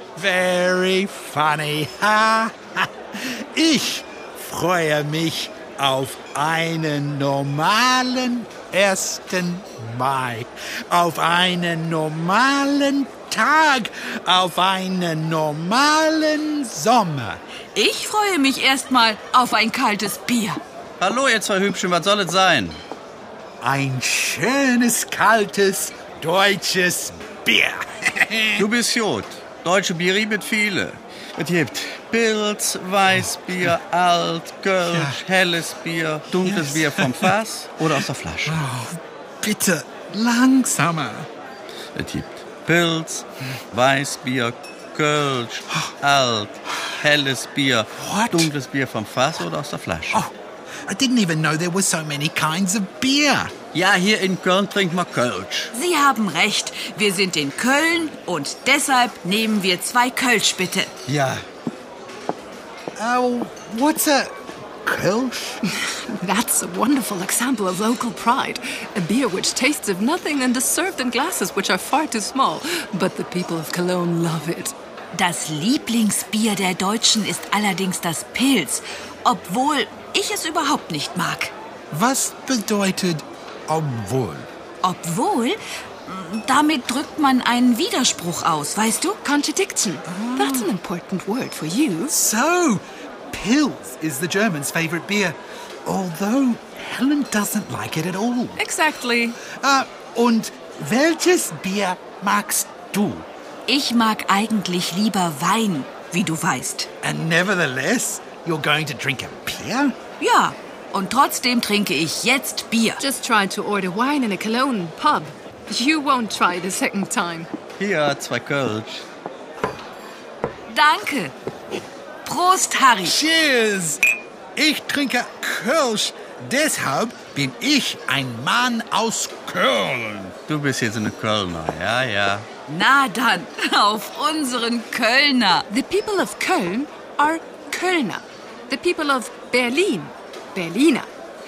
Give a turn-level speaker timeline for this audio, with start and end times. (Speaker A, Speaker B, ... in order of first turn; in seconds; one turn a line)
Speaker A: 0.1-17.4
Speaker B: 17.7-20.6
Speaker C: 21.0-22.8
Speaker A: 23.6-28.7
Speaker C: 28.6-38.6
Speaker A: 34.9-35.2
Speaker A: 36.4-37.3
Speaker A: 38.5-41.3
Speaker C: 41.9-50.2
Speaker A: 48.0-48.5
Speaker A: 50.9-53.5
Speaker C: 53.7-55.7
Speaker B: 55.7-60.9
Speaker A: 61.1-61.4
Speaker A: 63.0-65.6
Speaker D: 65.8-74.7
Speaker B: 75.1-81.5
Speaker A: 81.9-84.5
Speaker B: 84.8-89.2
Speaker D: 89.2-92.2
Speaker A: 90.1-90.5
Speaker A: 92.1-98.6
Speaker D: 98.6-99.4
Speaker A: 99.5-103.2
Speaker B: 103.7-106.9
Speaker A: 107.0-110.0
Speaker B: 110.2-113.0
Speaker D: 113.0-117.5
Speaker C: 117.8-119.0
Speaker B: 120.7-121.3
Speaker B: 122.2-123.2
Speaker A: 123.0-124.0
Speaker A: 124.5-130.3
Speaker C: 130.4-132.5
Speaker B: 132.7-135.7
Speaker D: 135.7-141.1